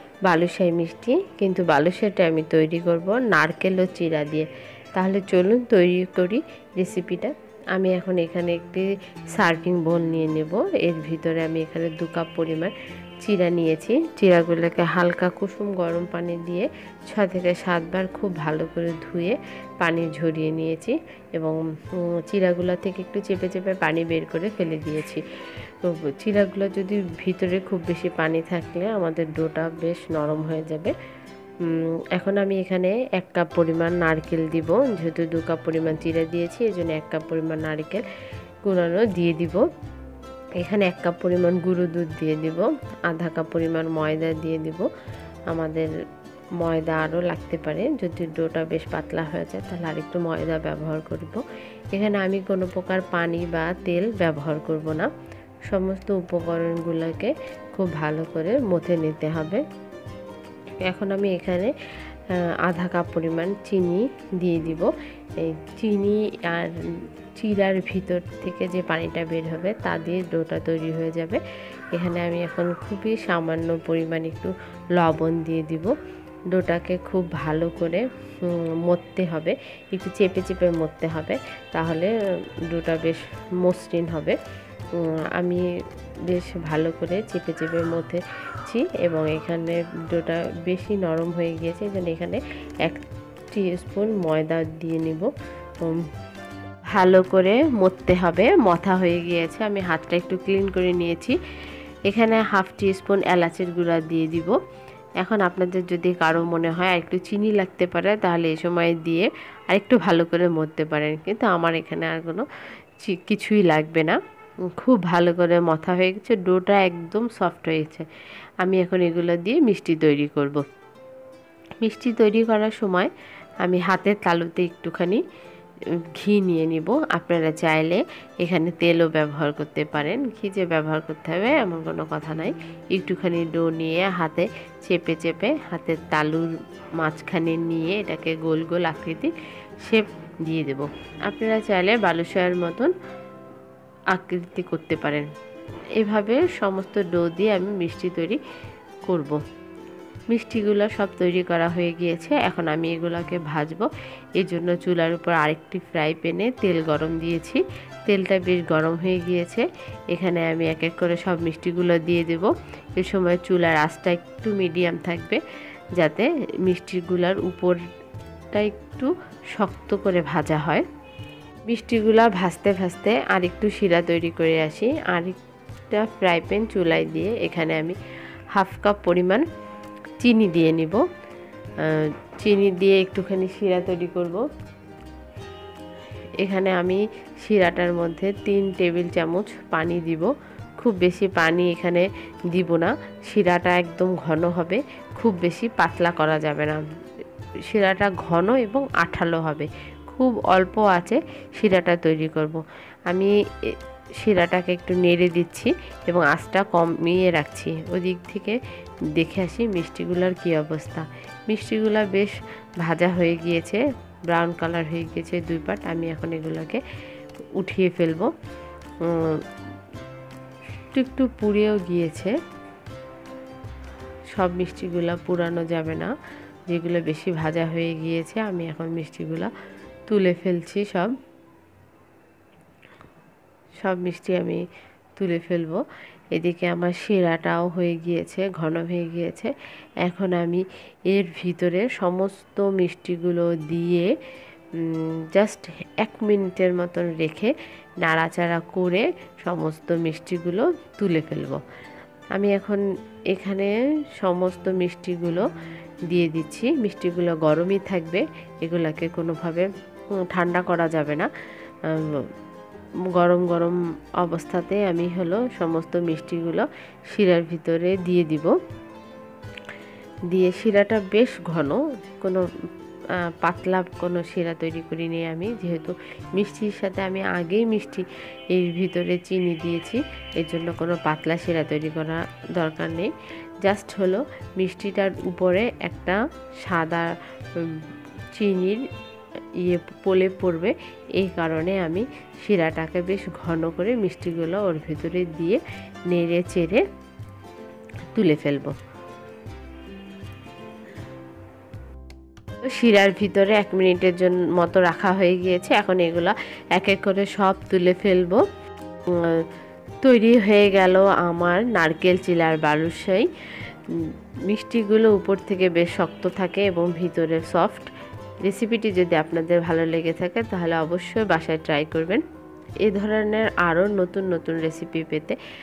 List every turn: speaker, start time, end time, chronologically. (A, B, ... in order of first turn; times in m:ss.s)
0:00.3-0:25.2 A
0:25.8-0:30.9 A
0:31.6-0:38.0 A
0:38.6-0:39.6 A
0:40.6-0:44.9 A
0:45.5-0:45.9 A
0:46.6-0:55.1 A
0:55.7-0:59.6 A
1:00.8-1:01.7 A
1:02.3-1:06.8 A
1:07.4-1:11.4 A
1:11.9-1:15.9 A
1:16.5-1:22.1 A
1:22.7-1:24.4 A
1:25.0-1:25.6 A
1:26.3-1:35.3 A
1:36.9-1:41.4 A
1:42.1-1:44.6 A
1:45.2-1:52.5 A
1:53.0-1:58.1 A
1:58.6-2:00.6 A
2:01.8-2:05.2 A
2:06.2-2:22.9 A
2:24.1-2:25.3 A
2:26.0-2:28.4 A
2:29.0-2:29.4 A
2:30.3-2:33.9 A
2:34.4-2:45.4 A
2:46.0-2:47.8 A
2:48.5-2:50.8 A
2:51.7-2:55.4 A
2:55.9-2:58.0 A
2:58.5-2:59.4 A
3:00.2-3:01.0 A
3:01.8-3:04.4 A
3:06.4-3:16.8 A
3:17.7-3:28.6 A
3:29.2-3:36.8 A
3:37.6-3:38.3 A
3:39.0-3:39.4 A
3:40.9-3:42.4 A
3:44.3-3:46.1 A
3:46.7-3:49.5 A
3:50.1-3:51.1 A
3:53.8-3:54.6 A
3:55.2-4:04.1 A
4:04.8-4:11.6 A
4:12.3-4:12.8 A
4:13.3-4:15.5 A
4:16.1-4:19.7 A
4:20.2-4:21.3 A
4:21.8-4:22.3 A
4:23.1-4:28.5 A
4:30.3-4:32.5 A
4:33.2-4:43.1 A
4:43.6-4:48.8 A
4:49.6-4:56.8 A
4:58.1-4:58.8 A
5:02.6-5:08.4 A
5:09.1-5:09.5 A
5:10.0-5:17.9 A
5:18.4-5:22.2 A
5:22.8-5:25.4 A